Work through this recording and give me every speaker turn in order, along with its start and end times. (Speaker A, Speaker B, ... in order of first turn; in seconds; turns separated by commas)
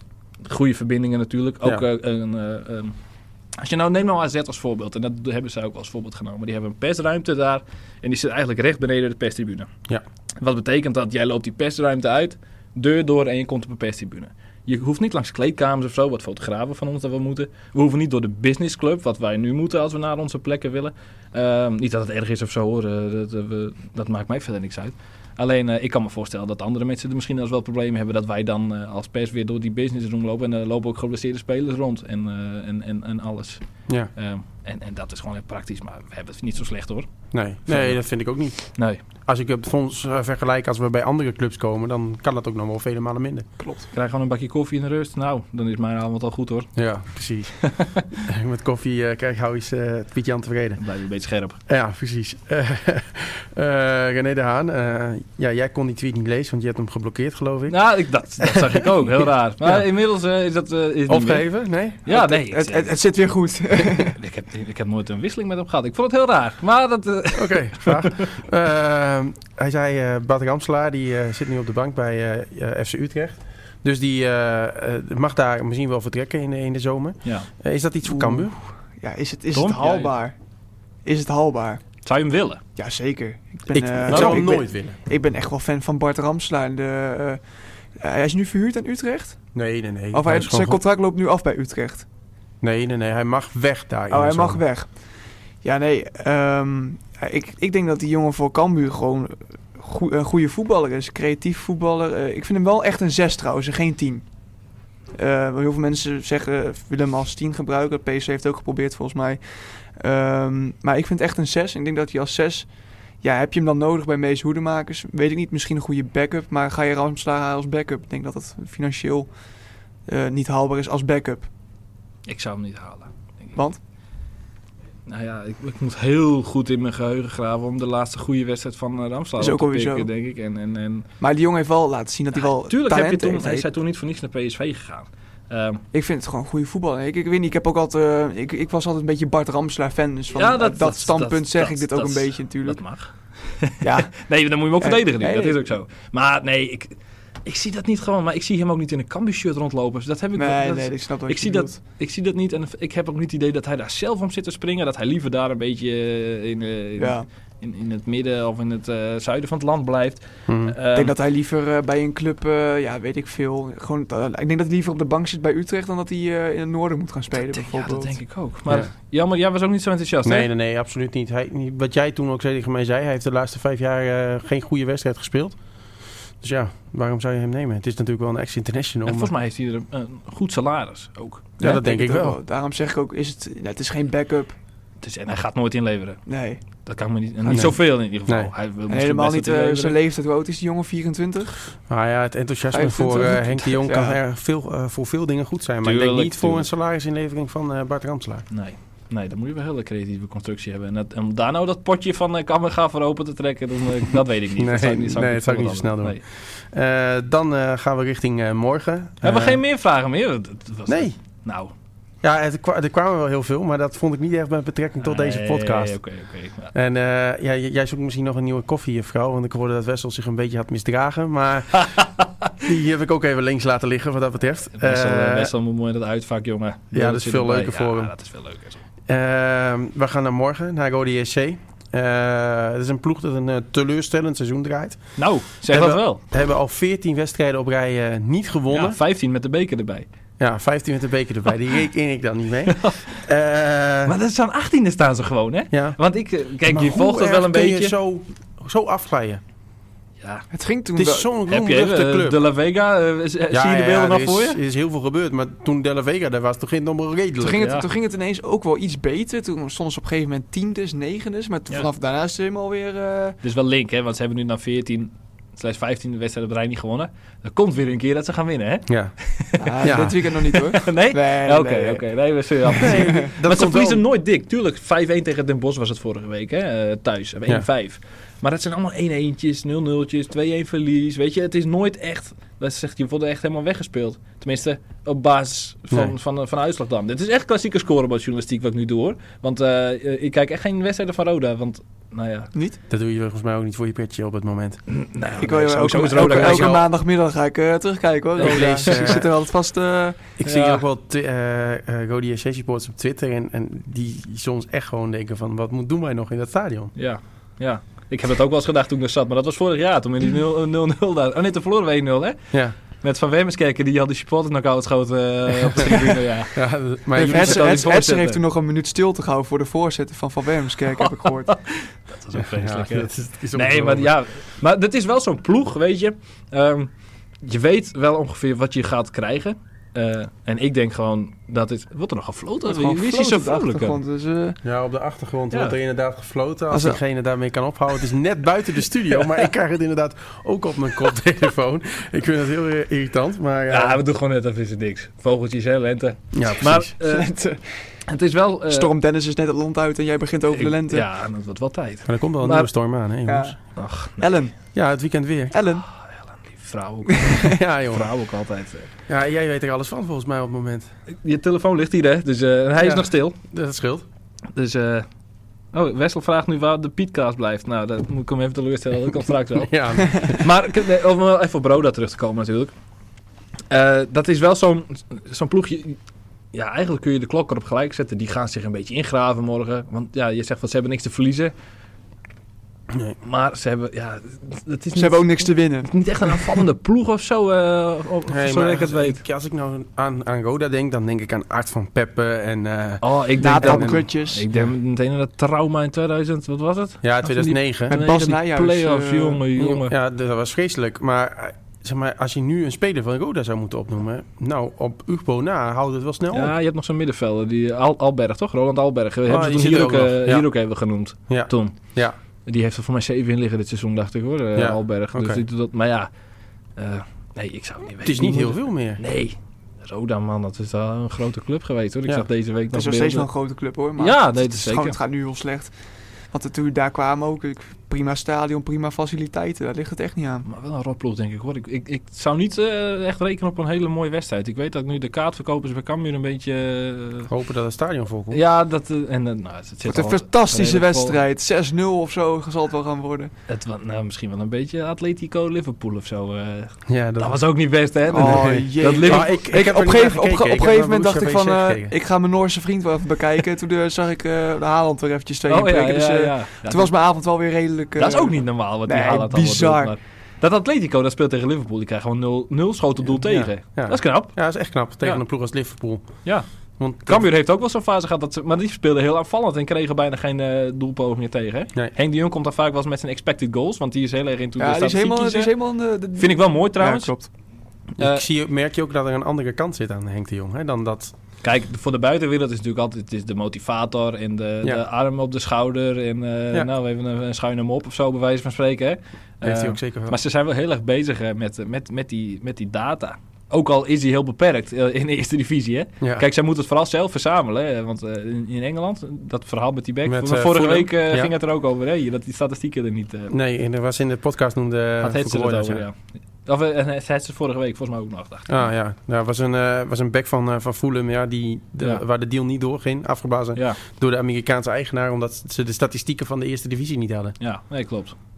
Speaker A: 0.4-3.0, Speaker A: 3.6-9.7, Speaker A: 10.4-37.1, Speaker B: 37.3-43.5, Speaker A: 37.7-38.0, Speaker A: 38.7-39.0, Speaker C: 43.6-43.9, Speaker A: 43.9-46.8, Speaker B: 46.8-47.7, Speaker A: 47.6-48.0, Speaker B: 48.2-50.8, Speaker A: 50.8-51.6, Speaker B: 51.7-57.8, Speaker A: 57.7-61.5, Speaker B: 58.4-58.9, Speaker B: 61.1-62.0, Speaker A: 62.0-62.9, Speaker C: 62.1-64.2, Speaker A: 64.2-68.3, Speaker B: 67.3-78.6, Speaker A: 77.2-77.5, Speaker C: 78.1-80.4, Speaker A: 79.5-80.1, Speaker C: 81.0-81.8, Speaker A: 82.0-82.6, Speaker C: 82.8-87.4, Speaker B: 83.7-85.0, Speaker A: 84.0-84.5, Speaker C: 88.0-89.4, Speaker B: 89.5-90.8, Speaker C: 90.1-92.1, Speaker B: 92.6-94.6, Speaker C: 94.1-95.1, Speaker C: 95.6-104.3, Speaker C: 105.1-119.3, Speaker C: 120.1-121.5, Speaker A: 122.3-123.5, Speaker C: 123.5-123.8, Speaker A: 125.1-131.1, Speaker C: 129.4-130.1, Speaker C: 131.2-133.7, Speaker A: 132.4-135.8, Speaker C: 135.9-142.8, Speaker A: 140.3-161.1, Speaker C: 143.8-144.2, Speaker C: 144.8-145.7, Speaker C: 150.4-151.8, Speaker C: 157.0-157.3, Speaker B: 160.5-160.8, Speaker C: 160.9-168.2, Speaker A: 167.4-170.5, Speaker B: 170.2-175.6, Speaker B: 176.4-179.3, Speaker A: 179.1-181.7, Speaker C: 181.6-184.6, Speaker B: 181.6-182.4, Speaker A: 185.0-190.0, Speaker C: 186.3-186.6, Speaker C: 187.4-187.8, Speaker B: 187.5-188.5, Speaker C: 188.9-191.6, Speaker B: 191.9-198.4, Speaker C: 192.7-194.2, Speaker A: 195.8-196.7, Speaker A: 198.5-206.2, Speaker B: 204.6-209.6, Speaker A: 209.2-211.7, Speaker B: 210.9-211.2, Speaker B: 212.2-216.0, Speaker A: 215.0-216.7, Speaker B: 216.7-222.1, Speaker A: 221.8-222.1, Speaker B: 222.6-225.5, Speaker A: 224.8-228.8, Speaker B: 226.9-228.1, Speaker B: 229.1-239.0, Speaker A: 235.2-236.2, Speaker A: 238.7-240.1, Speaker B: 240.4-244.2, Speaker A: 242.7-243.2, Speaker A: 244.1-247.9, Speaker B: 245.7-246.0, Speaker B: 246.7-249.4, Speaker A: 250.2-250.5, Speaker C: 250.5-251.3, Speaker B: 251.0-252.4, Speaker A: 251.5-254.6, Speaker B: 253.5-257.6, Speaker C: 257.4-263.4, Speaker A: 257.6-257.9, Speaker A: 263.4-292.5, Speaker B: 268.9-269.1, Speaker C: 269.6-272.0, Speaker B: 269.8-270.2, Speaker B: 272.8-274.0, Speaker C: 272.9-273.3, Speaker B: 292.9-294.8, Speaker A: 294.9-296.8, Speaker C: 295.4-300.2, Speaker B: 296.2-296.9, Speaker A: 298.4-299.2, Speaker B: 298.4-299.2, Speaker B: 300.4-306.9, Speaker A: 300.4-300.8, Speaker A: 306.9-318.4, Speaker B: 316.6-317.7, Speaker C: 317.2-321.5, Speaker A: 321.0-326.9, Speaker B: 322.4-324.1, Speaker A: 327.4-334.0, Speaker C: 332.7-334.6, Speaker B: 334.6-344.0, Speaker A: 335.5-335.8, Speaker C: 336.7-337.0, Speaker A: 343.7-347.3, Speaker B: 346.3-346.9, Speaker C: 347.0-347.6, Speaker A: 348.1-348.9, Speaker C: 348.7-351.1, Speaker A: 350.5-352.7, Speaker B: 352.1-353.6, Speaker C: 353.3-353.6, Speaker A: 353.8-354.3, Speaker C: 354.2-354.6, Speaker B: 354.7-355.5, Speaker C: 355.5-355.8, Speaker A: 355.9-358.9, Speaker C: 357.1-357.5, Speaker B: 357.5-358.1, Speaker B: 359.1-360.9, Speaker A: 361.2-363.4, Speaker B: 362.8-364.1, Speaker A: 364.5-365.1, Speaker A: 365.7-372.7, Speaker B: 369.6-370.5, Speaker A: 373.7-376.0, Speaker A: 376.5-381.5, Speaker B: 382.9-383.2, Speaker A: 383.2-389.2, Speaker C: 384.9-386.5, Speaker B: 388.3-394.0, Speaker A: 393.0-399.9, Speaker C: 393.4-394.4, Speaker B: 397.0-397.9, Speaker C: 397.9-399.4, Speaker B: 399.6-406.5, Speaker A: 406.3-411.9, Speaker B: 409.3-410.5, Speaker B: 411.3-412.2, Speaker A: 412.5-416.1, Speaker B: 414.6-415.4, Speaker A: 416.8-423.3, Speaker B: 418.0-419.0, Speaker C: 422.7-425.7, Speaker A: 424.0-425.0, Speaker C: 426.3-430.4, Speaker A: 430.5-437.3, Speaker B: 437.3-438.4, Speaker A: 438.3-441.2, Speaker C: 439.9-443.3, Speaker A: 443.5-449.4, Speaker B: 446.9-447.4, Speaker C: 448.1-459.9, Speaker B: 448.2-451.9, Speaker A: 455.5-456.9, Speaker A: 458.0-465.2, Speaker B: 463.2-466.2, Speaker B: 466.8-467.3, Speaker A: 467.0-475.5, Speaker C: 474.6-477.3, Speaker A: 476.2-477.3, Speaker A: 478.0-478.2, Speaker B: 478.0-481.1, Speaker A: 481.4-503.4, Speaker B: 489.4-490.1, Speaker B: 500.1-501.3, Speaker B: 503.3-505.8, Speaker A: 505.0-508.6, Speaker B: 508.5-517.4, Speaker A: 517.4-518.2